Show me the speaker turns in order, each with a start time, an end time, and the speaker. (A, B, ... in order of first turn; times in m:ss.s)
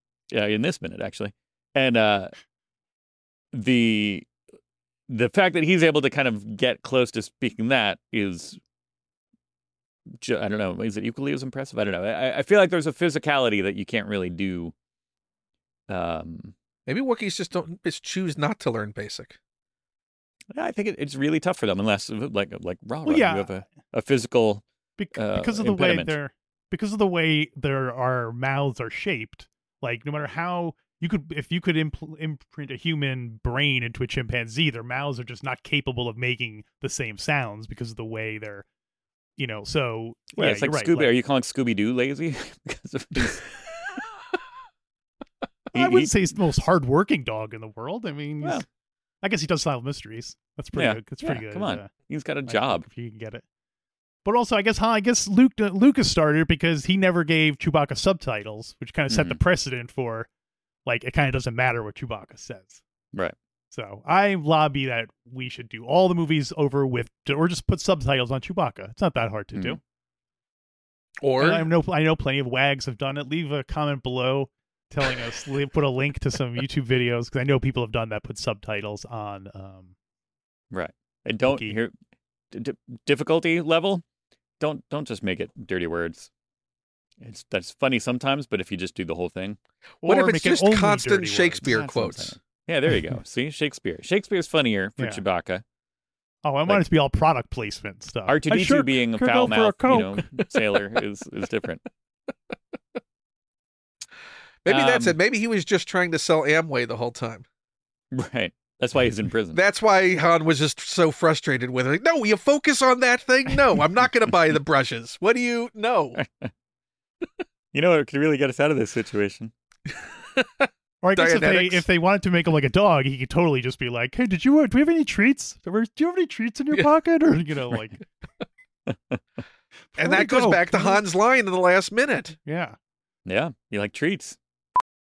0:00.3-0:02.3 A
0:03.5-0:04.3 A
0:05.1-0:08.6 A
0:10.2-0:14.7 A
0:15.9-0:16.5 A
0:16.9-0:19.4 B
0:20.5-0:24.6 A
0:23.0-0:23.6 C
0:25.0-0:38.6 C
0:25.1-0:26.2 A
0:39.4-0:41.1 C
0:40.4-0:43.5 A
0:45.7-0:46.2 A
0:45.7-0:48.6 C
0:49.2-0:51.9 C
0:50.7-0:52.8 A
0:52.5-0:53.4 C
0:54.2-1:00.3 C
0:59.1-0:59.4 A
1:00.8-1:02.8 C
1:03.7-1:09.8 C
1:11.2-1:11.7 B
1:11.4-1:19.9 C
1:20.7-1:21.9 A
1:21.5-1:21.7 C
1:22.5-1:24.0 A
1:24.6-1:26.3 A
1:27.2-1:29.6 A
1:30.0-1:32.4 B
1:30.0-1:31.7 C
1:31.7-1:35.6 A
1:36.4-1:40.4 C
1:38.3-1:41.8 A
1:44.6-1:47.4 B
1:44.7-1:45.2 A
1:48.1-1:49.6 A
1:49.5-1:56.2 B
1:56.2-1:56.5 A
1:57.7-1:59.5 A
2:00.3-2:01.8 B
2:01.0-2:08.0 C
2:08.9-2:09.2 A
2:10.0-2:11.0 C
2:10.0-2:12.4 B
2:12.4-2:12.8 C
2:13.2-2:14.4 A